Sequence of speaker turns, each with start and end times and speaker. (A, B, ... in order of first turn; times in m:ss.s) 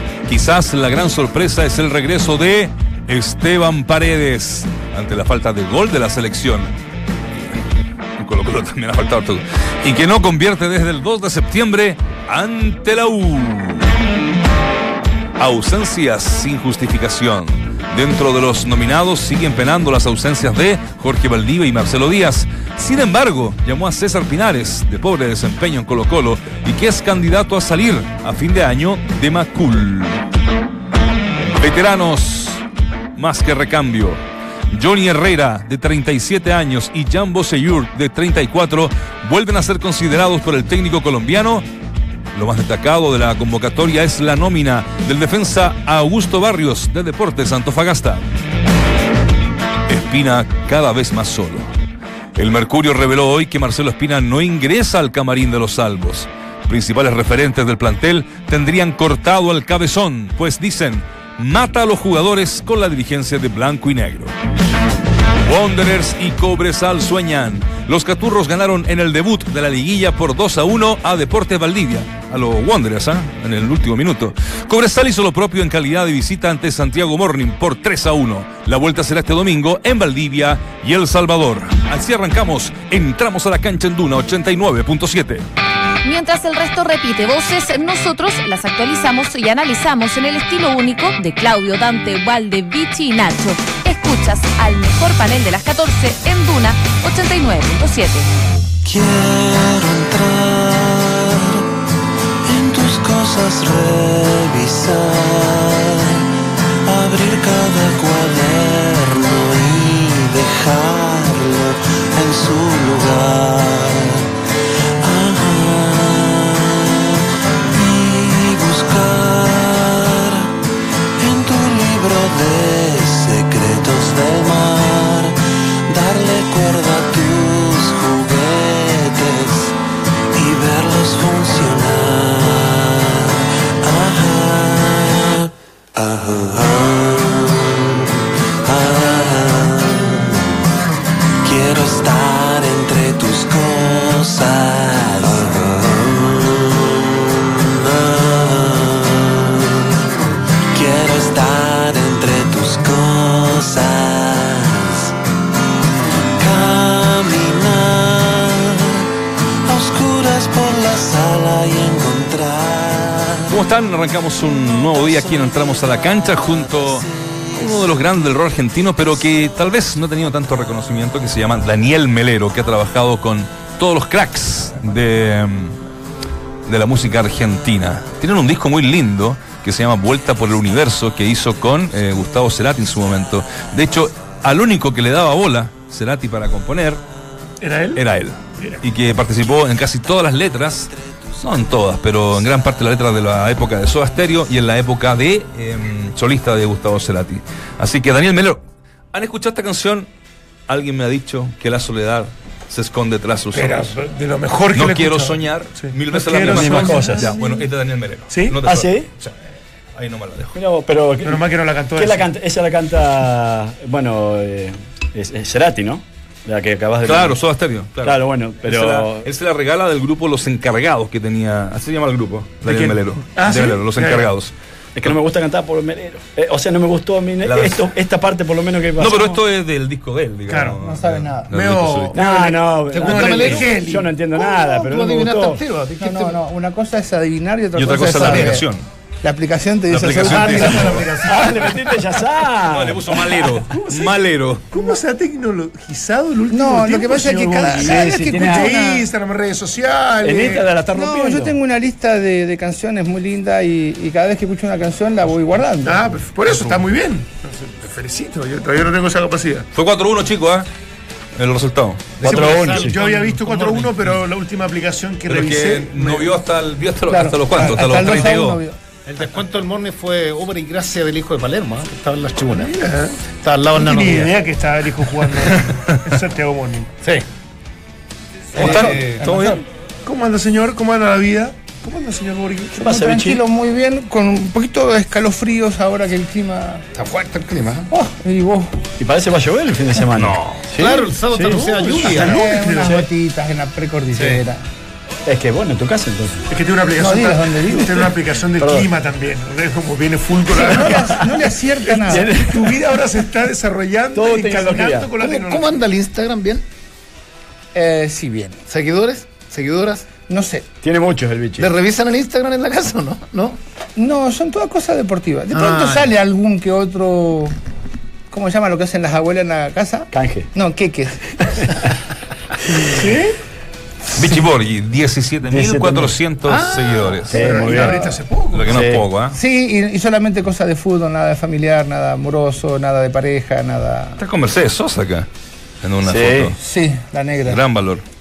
0:00.2-0:06.7 A
0:08.2-0:13.9 A
0:15.4-0:30.2 A
0:31.5-0:32.6 A
0:33.2-0:41.6 A
0:42.3-0:48.2 A
0:49.9-0:51.7 A
0:52.3-1:04.3 A
1:05.4-1:25.4 A
1:26.0-1:38.3 B
1:38.8-1:41.6 C
1:42.4-1:46.2 C
1:46.8-1:54.3 C
1:55.0-2:00.5 C
2:01.2-2:09.8 C
2:10.3-2:20.6 C
2:21.4-2:29.9 C
2:30.7-2:35.1 C
2:36.4-2:39.0 C
2:39.6-2:43.6 C
2:43.5-2:55.8 A
2:44.7-2:47.5 C
2:56.6-3:07.0 A
3:07.6-3:08.0 D
3:08.0-3:18.6 A
3:19.1-3:20.1 A
3:20.7-3:24.0 A
3:23.5-3:27.6 D
3:24.7-3:29.3 A
3:26.4-3:27.3 E
3:28.3-3:28.6 D
3:28.6-3:29.1 E
3:29.9-3:30.5 A
3:30.5-3:31.4 E
3:31.2-3:32.3 D
3:32.0-3:37.4 E
3:37.0-3:44.5 A
3:38.0-3:39.3 E
3:42.6-3:44.3 D
3:45.0-3:49.3 E
3:47.4-3:47.8 A
3:49.0-3:52.2 A
3:50.5-3:50.8 D
3:50.8-3:51.5 F
3:51.5-3:54.1 D
3:52.1-3:55.6 E
3:52.9-3:53.8 G
3:54.3-3:56.4 G
3:56.0-3:58.7 F
3:57.7-3:58.8 A
3:59.2-4:01.1 F
3:59.9-4:01.2 A
4:00.1-4:01.8 G
4:01.2-4:03.5 E
4:02.6-4:04.7 A
4:03.7-4:04.2 D
4:04.7-4:10.7 D
4:06.5-4:09.1 F
4:07.8-4:08.8 E
4:10.2-4:11.6 E
4:10.9-4:16.0 F
4:15.8-4:19.7 D
4:19.7-4:20.7 A
4:21.4-4:22.2 A
4:22.2-4:23.0 E
4:22.2-4:23.5 G
4:22.2-4:26.3 D
4:23.6-4:24.1 A
4:25.3-4:28.6 A
4:27.1-4:28.8 F
4:29.0-4:32.8 G
4:32.7-4:33.2 D
4:33.3-4:34.3 G
4:33.7-4:36.9 D
4:38.5-4:39.3 G
4:38.6-4:42.8 D
4:38.6-4:39.6 A
4:38.6-4:39.5 F
4:42.7-4:46.8 F
4:42.8-4:43.4 E
4:46.9-4:47.9 G
4:47.9-4:48.8 F
4:49.0-4:53.0 E
4:50.8-4:52.4 G
4:52.0-4:53.0 D
4:52.2-4:54.6 F
4:54.1-4:54.4 G
4:55.2-4:56.5 E
4:56.5-5:01.2 D
4:56.9-4:58.1 F
4:58.6-4:58.9 E
5:00.5-5:02.3 F
5:01.8-5:05.8 D
5:02.1-5:02.8 E
5:04.1-5:05.1 E
5:05.2-5:06.6 G
5:07.7-5:08.6 F
5:08.7-5:10.0 G
5:10.3-5:10.6 F
5:10.8-5:11.7 E
5:11.6-5:13.6 G
5:14.0-5:17.5 F
5:15.5-5:16.0 G
5:18.3-5:21.6 F
5:20.1-5:20.5 E
5:22.8-5:23.4 D
5:24.1-5:27.5 A
5:25.5-5:26.1 E
5:26.5-5:27.2 G
5:27.3-5:28.0 E
5:27.3-5:28.8 D
5:27.5-5:28.2 F
5:28.5-5:29.4 A
5:28.7-5:29.0 E
5:29.3-5:34.2 F
5:34.2-5:35.3 A
5:35.8-5:36.6 A
5:36.0-5:36.5 E
5:36.6-5:37.6 F
5:37.4-5:38.0 A